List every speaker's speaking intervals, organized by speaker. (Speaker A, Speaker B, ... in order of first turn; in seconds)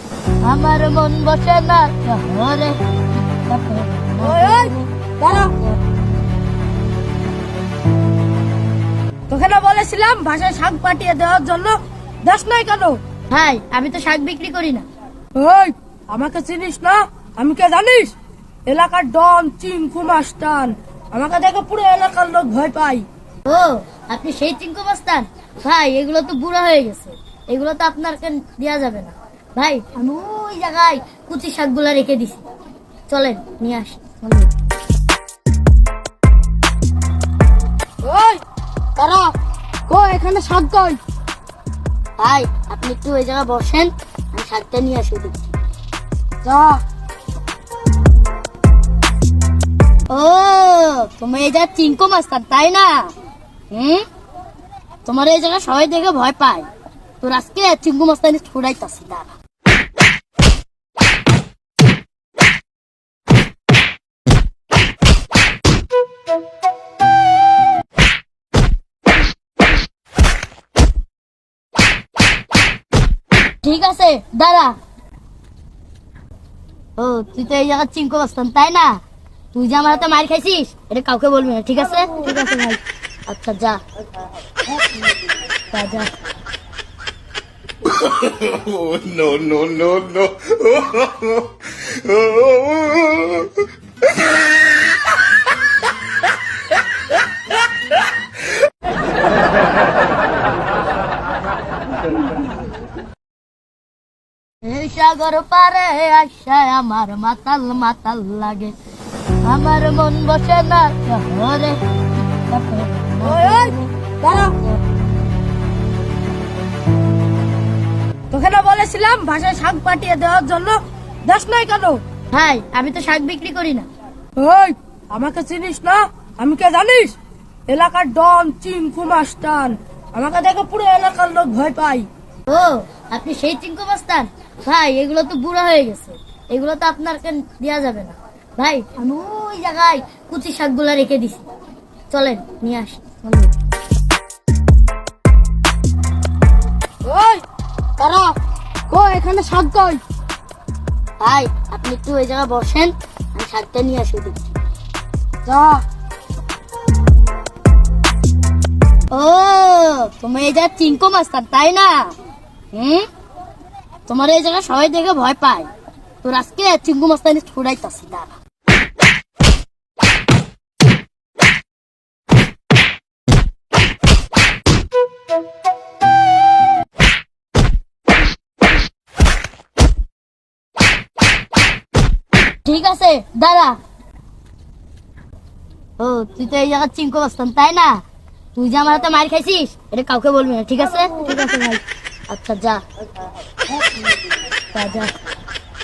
Speaker A: 0.4-4.9, 13.3-14.8, 23.4-32.5, 33.1-34.5, 42.2-45.5, 50.1-53.1, 53.7-54.0, 55.0-56.7, 57.2-59.3, 73.6-74.8, 77.0-79.0, 79.5-83.8, 85.7-86.1, 104.6-108.7, 109.4-113.9, 122.3-123.9, 132.5-141.5, 142.1-143.5, 151.2-154.4, 159.1-162.1, 162.7-163.1, 164.1-165.7, 166.2-168.3, 182.6-183.8, 186.0-188.0, 188.5-192.8, 194.7-195.1
Speaker B: 4.2-5.5, 9.3-13.0, 15.3-18.1, 18.7-23.1, 38.0-38.4, 39.0-39.3, 39.9-41.0, 46.4-46.8, 113.2-114.6, 118.3-122.0, 124.4-127.2, 127.7-132.1, 147.0-147.4, 148.0-148.4, 148.9-150.0, 155.4-155.8
Speaker C: 87.8-93.6